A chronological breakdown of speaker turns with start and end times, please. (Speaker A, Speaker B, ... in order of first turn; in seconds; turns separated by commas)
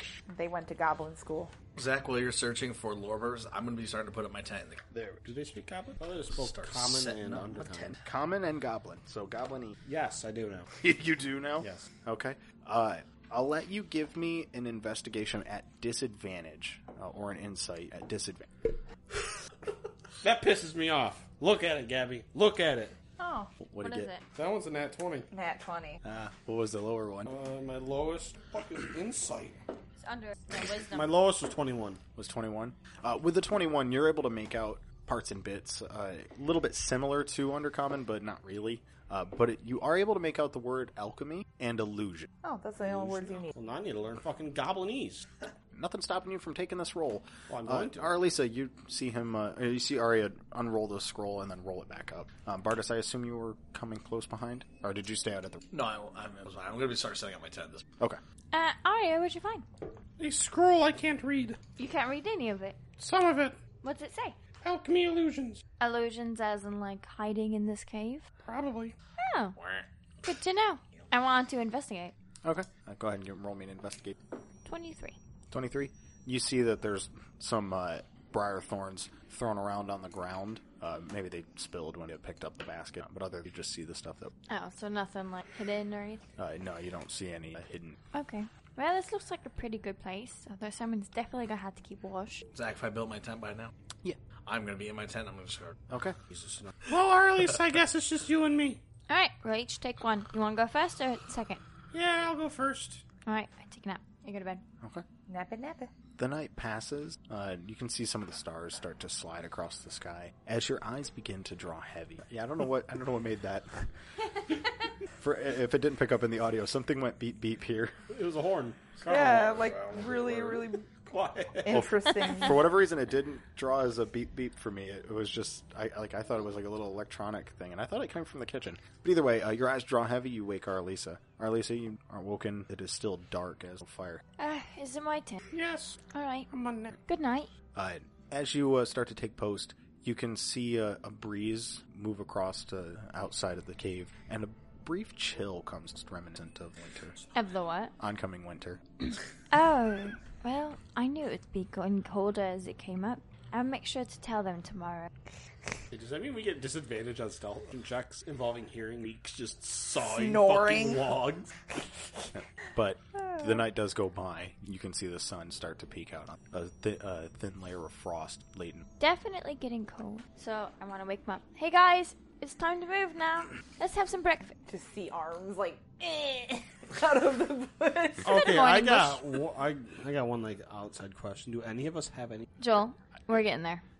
Speaker A: 0.3-1.5, Speaker B: 1.8-4.8, Speaker C: 4.9-5.2, Speaker D: 5.2-8.0, Speaker B: 6.3-8.0, Speaker C: 8.0-9.7, Speaker D: 9.8-10.7, Speaker C: 10.8-18.7, Speaker D: 20.2-22.9, Speaker A: 23.2-23.5, Speaker C: 23.6-24.1, Speaker E: 23.8-24.2, Speaker D: 24.3-25.3, Speaker A: 25.3-26.0, Speaker C: 26.0-27.3, Speaker D: 27.3-29.6, Speaker E: 30.0-31.1, Speaker D: 30.8-32.0, Speaker C: 32.1-42.3, Speaker A: 42.4-43.5, Speaker D: 42.9-45.2, Speaker C: 45.7-55.6, Speaker D: 47.5-48.1, Speaker B: 55.7-57.8, Speaker E: 58.5-59.6, Speaker D: 60.2-61.6, Speaker E: 61.8-62.8, Speaker D: 63.0-63.6, Speaker E: 63.8-64.4, Speaker D: 64.6-65.6, Speaker E: 65.8-68.2, Speaker D: 68.4-68.9, Speaker E: 69.2-69.5, Speaker B: 69.6-69.8, Speaker E: 70.2-72.1, Speaker C: 72.4-74.2, Speaker E: 74.6-75.2, Speaker C: 75.5-84.3, Speaker E: 84.5-86.2, Speaker C: 86.4-88.0, Speaker E: 88.1-92.4, Speaker B: 92.5-93.7, Speaker B: 94.5-95.8, Speaker C: 95.9-96.2, Speaker D: 96.3-98.8, Speaker E: 99.1-101.6, Speaker D: 101.9-103.0, Speaker E: 103.2-104.6, Speaker A: 105.3-105.9, Speaker C: 106.2-113.9, Speaker C: 115.2-118.0, Speaker D: 118.1-121.9, Speaker A: 119.1-120.9, Speaker B: 119.3-120.2, Speaker A: 121.6-122.7, Speaker C: 121.7-134.2, Speaker E: 134.4-135.4, Speaker D: 135.5-136.0, Speaker E: 136.1-136.5, Speaker D: 136.5-136.9, Speaker E: 137.1-137.5, Speaker C: 137.7-147.1, Speaker E: 147.3-147.9, Speaker C: 148.0-148.8, Speaker E: 149.5-155.1, Speaker D: 155.9-161.5, Speaker A: 160.0-161.2, Speaker C: 162.3-168.8, Speaker A: 163.2-163.6, Speaker E: 169.0-174.6, Speaker A: 174.7-178.5, Speaker D: 178.2-182.5, Speaker E: 178.3-179.2, Speaker E: 182.6-183.8